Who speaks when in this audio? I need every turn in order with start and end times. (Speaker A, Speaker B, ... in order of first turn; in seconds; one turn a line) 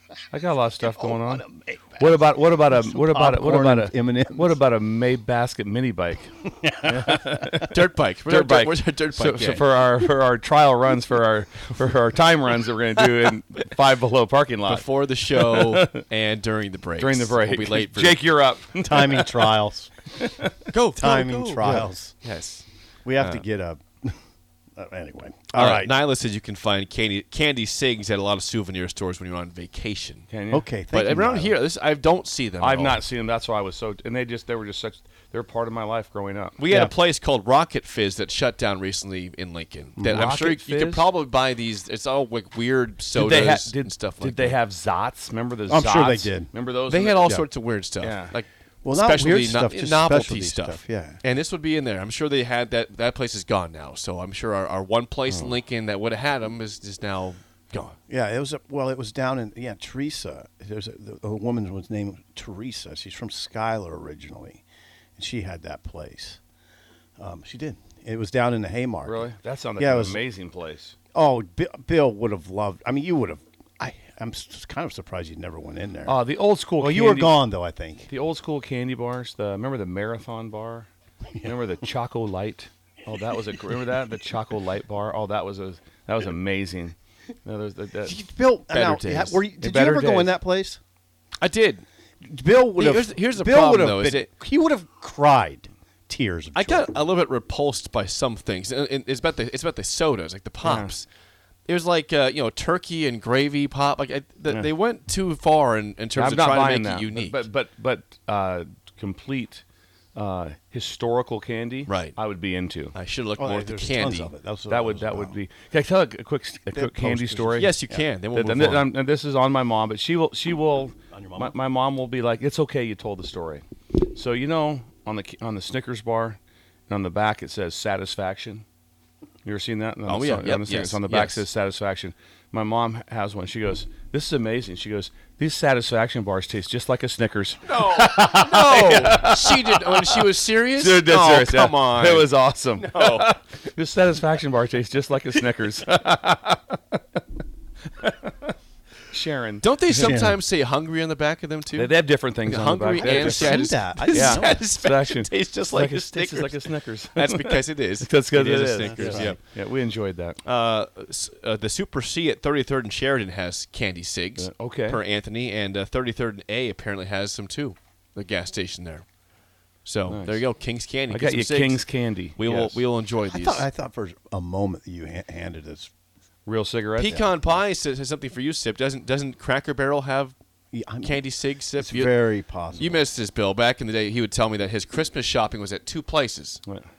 Speaker A: 0.3-1.4
Speaker B: 0.8-4.6
Speaker A: 2.0-16.0
Speaker B: 6.6-7.5
Speaker C: 7.6-9.6
Speaker C: 14.7-18.2
Speaker A: 17.0-19.5
Speaker B: 18.8-19.9
Speaker A: 20.2-20.5
Speaker C: 20.7-22.6
Speaker B: 20.9-22.1
Speaker B: 23.0-24.2
Speaker B: 24.8-25.9
Speaker C: 25.5-30.3
Speaker A: 30.3-30.6
Speaker B: 30.5-31.6
Speaker C: 30.9-33.0
Speaker A: 32.6-36.6
Speaker C: 36.6-44.5
Speaker B: 40.0-40.3
Speaker A: 40.1-41.0
Speaker A: 43.1-47.4
Speaker B: 45.7-46.5
Speaker C: 46.9-58.0
Speaker A: 48.0-48.3
Speaker B: 48.8-51.2
Speaker B: 58.1-64.6
Speaker B: 65.2-66.4
Speaker B: 67.2-70.2
Speaker A: 69.0-70.9
Speaker B: 71.1-76.2
Speaker A: 76.1-77.3
Speaker B: 76.8-78.1
Speaker A: 78.1-80.9
Speaker A: 81.4-88.2
Speaker B: 88.0-90.8
Speaker C: 88.7-89.4
Speaker A: 89.6-90.3
Speaker C: 91.4-91.8
Speaker B: 92.2-96.9
Speaker C: 92.8-94.3
Speaker C: 96.5-101.0
Speaker A: 100.6-100.9
Speaker C: 101.7-107.4
Speaker A: 106.2-109.6
Speaker A: 110.1-112.9
Speaker C: 111.9-112.2
Speaker C: 112.9-114.3
Speaker B: 113.4-115.3
Speaker A: 114.7-117.7
Speaker B: 116.7-118.0
Speaker C: 117.6-118.8
Speaker A: 118.3-126.4
Speaker B: 121.1-121.5
Speaker A: 126.9-128.6
Speaker A: 129.4-147.0
Speaker C: 130.1-131.4
Speaker C: 137.7-143.3
Speaker A: 148.0-148.5
Speaker A: 149.1-150.2
Speaker C: 149.6-151.9
Speaker B: 149.9-150.4
Speaker A: 151.7-160.4
Speaker C: 152.4-156.6
Speaker B: 152.9-154.6
Speaker C: 157.1-159.4
Speaker B: 158.8-159.3
Speaker C: 160.4-169.1
Speaker A: 164.4-165.0
Speaker C: 169.8-171.8
Speaker A: 170.1-170.4
Speaker A: 171.1-172.8
Speaker C: 172.4-173.7
Speaker B: 173.3-175.9
Speaker A: 176.4-177.2
Speaker C: 177.0-180.3
Speaker B: 180.7-181.2
Speaker C: 181.0-182.1
Speaker B: 181.8-183.0
Speaker C: 182.8-186.6